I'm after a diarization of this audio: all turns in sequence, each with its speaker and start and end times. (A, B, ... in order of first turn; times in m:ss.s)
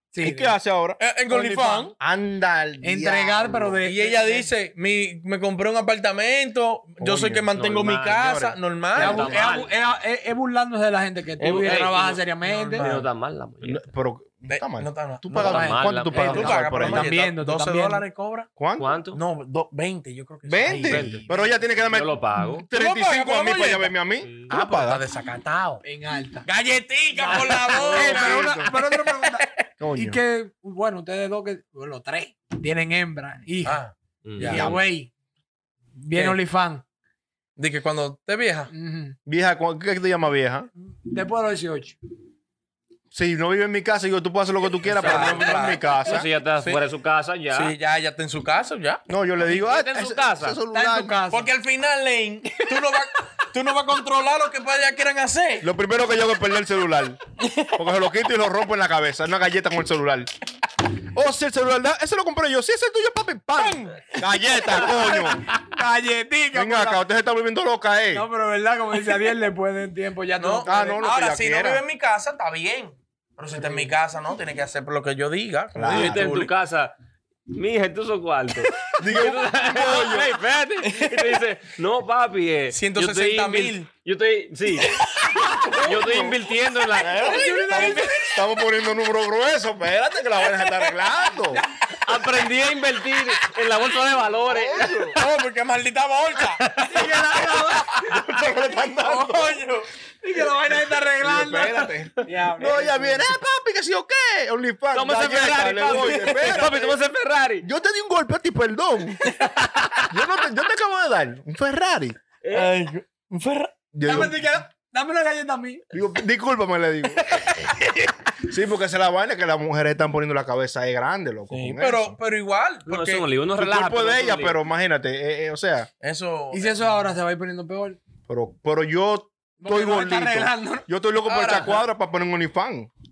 0:00.1-0:00.6 A
0:00.2-0:01.0 B
0:01.0-0:01.9 C
0:01.3-0:01.9 A
0:02.0-0:03.6 B
0:02.8-0:04.5 A
0:03.4-0:09.4 C
0:07.0-0:08.6 B
0:09.0-0:12.9 A
0:09.0-0:09.7 D
0:11.4-0:13.1 C
0:11.6-0:12.0 D
0:12.8-0:13.9 D
0:13.6-0:17.1 B
0:14.5-0:15.6 C
0:15.4-0:18.0 A
0:15.4-0:16.7 D
0:16.1-0:18.5 C
0:18.6-0:18.9 B
0:18.8-0:19.2 D
0:19.1-0:21.0 C
0:20.5-0:25.0 B
0:20.7-0:21.5 A
0:20.8-0:21.2 D
0:21.9-0:22.7 D
0:22.7-0:24.0 C
0:24.2-0:24.5 D
0:24.5-0:25.8 C
0:25.8-0:26.5 A
0:26.4-0:29.4 C
0:27.1-0:33.8 A
0:27.7-0:28.8 B
0:29.8-0:30.2 B
0:33.6-0:34.8 C
0:34.2-0:34.7 D
0:34.4-0:35.1 A
0:36.0-0:36.8 A
0:36.1-0:36.4 C
0:37.6-0:38.7 C
0:38.7-0:39.2 A
0:39.3-0:40.7 B
0:41.0-0:42.0 A
0:43.1-0:46.3 B
0:44.8-0:46.8 C
0:44.9-0:47.7 D
0:47.5-0:49.1 C
0:49.1-0:51.2 B
0:49.4-0:50.6 D
0:50.7-0:51.5 A
0:51.3-0:55.7 C
0:55.6-0:57.2 B
0:57.4-0:57.7 C
0:57.7-1:00.3 B
1:01.1-1:05.4 B
1:04.8-1:07.0 A
1:06.5-1:08.3 B
1:08.1-1:11.0 A
1:10.4-1:16.5 C
1:10.6-1:11.8 B
1:15.8-1:16.2 B
1:15.9-1:17.0 D
1:17.5-1:24.9 D
1:19.0-1:20.4 B
1:20.8-1:21.3 C
1:22.7-1:23.9 C
1:25.1-1:25.5 C
1:25.8-1:28.2 D
1:25.8-1:26.4 B
1:27.0-1:31.6 B
1:27.0-1:28.4 C
1:27.2-1:28.1 A
1:30.5-1:31.0 C
1:31.5-1:31.9 A
1:32.0-1:35.2 D
1:34.5-1:35.1 B
1:35.1-1:36.6 C
1:36.6-1:37.0 D
1:36.8-1:38.2 A
1:38.1-1:39.6 B
1:39.0-1:39.9 C
1:40.2-1:43.4 A
1:41.2-1:46.9 B
1:44.9-1:47.7 D
1:45.9-1:46.8 C
1:47.6-1:49.3 B
1:49.6-1:50.0 D
1:50.0-1:52.2 B
1:52.4-1:52.7 D
1:52.5-1:53.8 C
1:53.9-1:54.5 B
1:54.0-1:55.8 A
1:55.9-2:02.2 B
2:01.5-2:03.3 C
2:02.9-2:04.6 D
2:03.6-2:05.9 B
2:06.0-2:06.9 C
2:06.5-2:08.0 A
2:08.3-2:12.9 B
2:09.6-2:10.9 A
2:11.2-2:11.9 C